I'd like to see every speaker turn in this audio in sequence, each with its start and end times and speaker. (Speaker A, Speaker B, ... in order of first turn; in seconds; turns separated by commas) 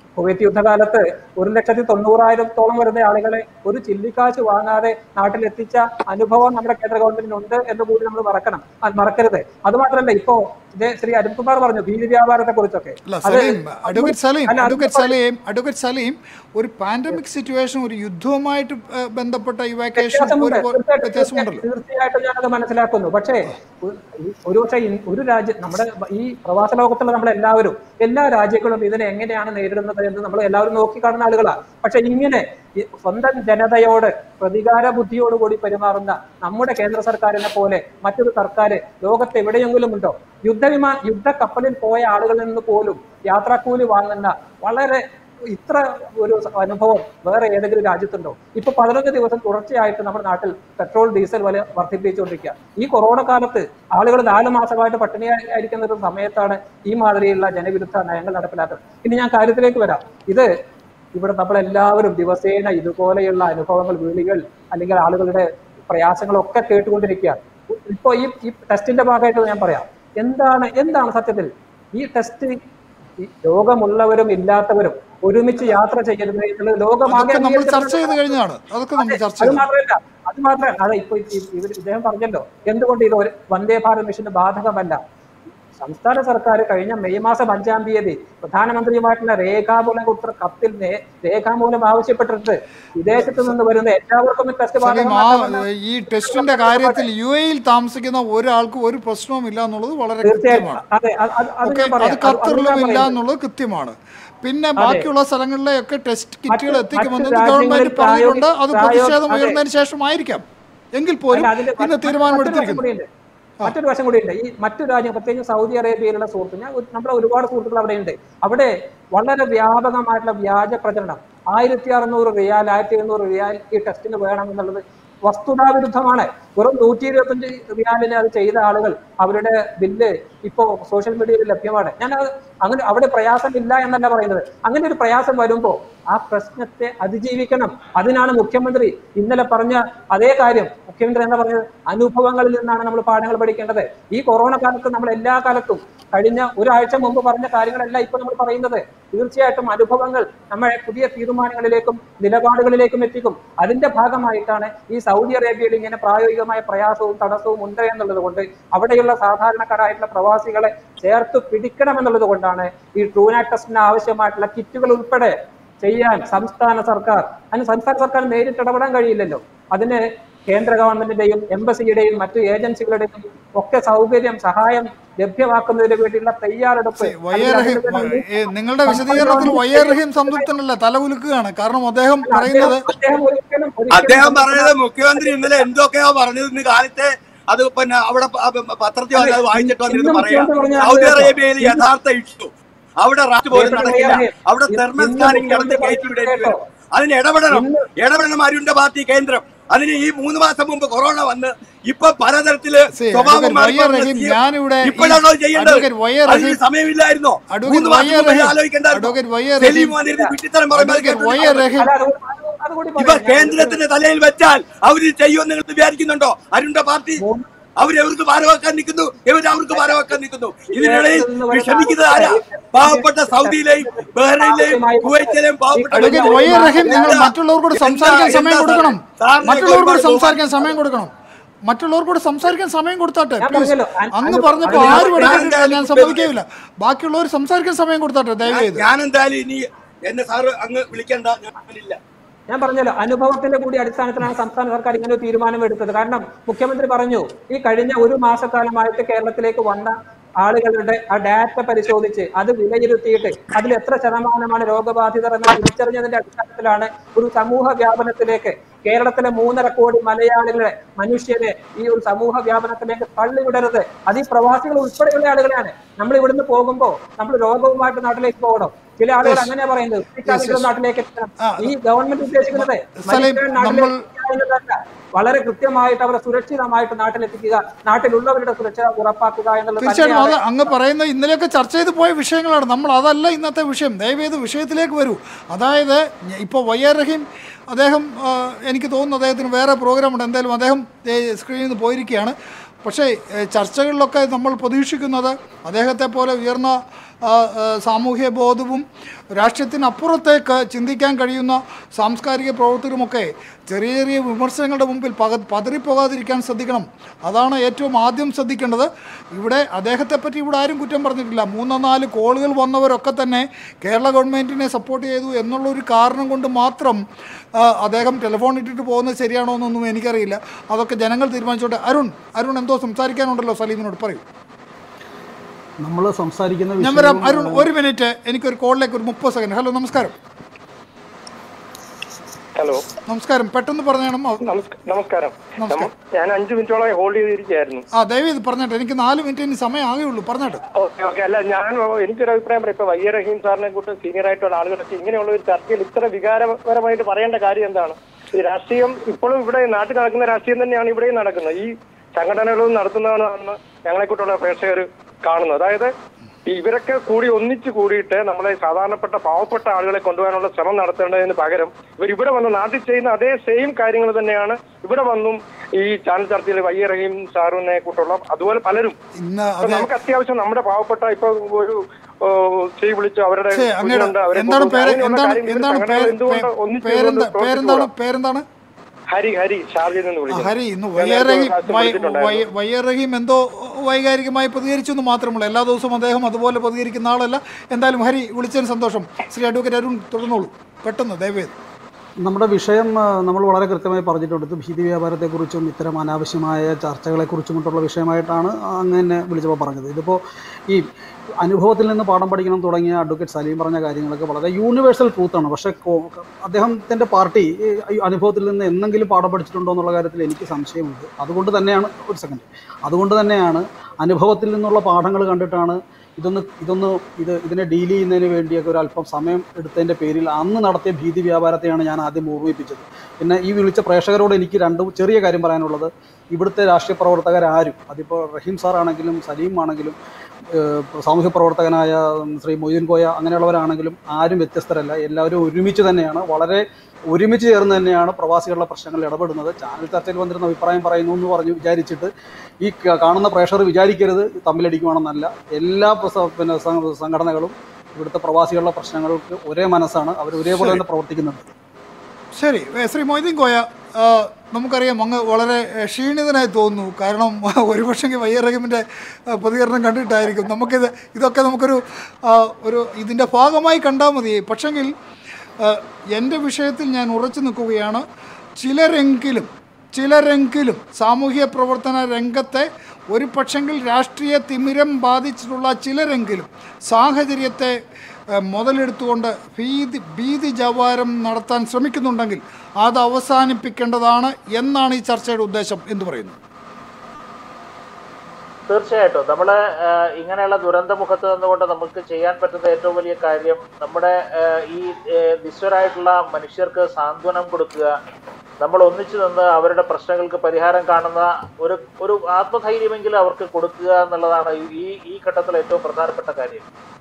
Speaker A: 0.1-15.1, Speaker B: 13.0-21.6, Speaker A: 19.9-60.5, Speaker A: 61.1-72.6, Speaker A: 73.2-78.3, Speaker B: 77.1-79.7, Speaker A: 79.0-85.0, Speaker A: 85.8-95.6, Speaker B: 93.2-93.5, Speaker B: 94.8-100.8, Speaker A: 96.1-97.0, Speaker A: 100.2-103.1, Speaker B: 101.6-112.8, Speaker A: 106.5-109.6, Speaker A: 111.3-113.1, Speaker A: 113.6-180.4, Speaker B: 176.9-182.8, Speaker A: 182.2-185.6, Speaker C: 183.9-192.5, Speaker A: 189.1-191.9, Speaker C: 193.0-211.7, Speaker A: 193.5-196.6, Speaker A: 197.5-197.8, Speaker B: 202.9-206.6, Speaker B: 207.5-209.9, Speaker A: 210.1-210.3, Speaker B: 210.7-211.9, Speaker A: 211.7-213.8, Speaker C: 213.0-217.2, Speaker A: 217.2-217.5, Speaker C: 217.8-230.4, Speaker A: 219.7-220.0, Speaker A: 220.7-227.2, Speaker B: 225.9-231.1, Speaker B: 231.7-238.8, Speaker A: 233.4-235.4, Speaker C: 234.7-236.3, Speaker C: 238.5-242.0, Speaker A: 242.5-280.4, Speaker B: 269.2-269.5, Speaker B: 270.3-270.7, Speaker B: 271.4-271.7, Speaker B: 272.5-274.0, Speaker B: 279.8-298.8, Speaker B: 299.4-317.0, Speaker B: 317.6-324.2, Speaker D: 325.8-327.7, Speaker B: 326.8-330.1, Speaker E: 332.6-332.9, Speaker B: 333.1-334.4, Speaker E: 334.4-337.9, Speaker B: 335.6-335.9, Speaker B: 337.9-340.6, Speaker E: 340.7-355.9, Speaker E: 356.4-369.0, Speaker B: 369.2-369.9, Speaker E: 369.6-377.9, Speaker B: 373.5-378.4, Speaker E: 379.1-382.4, Speaker B: 380.3-391.6, Speaker D: 392.2-400.9, Speaker D: 401.4-429.9, Speaker D: 430.5-442.1, Speaker D: 442.6-451.4, Speaker B: 450.5-450.8, Speaker B: 452.3-464.9, Speaker B: 465.6-468.0, Speaker B: 468.6-477.8, Speaker B: 478.3-486.4, Speaker F: 488.7-497.9, Speaker F: 498.6-506.6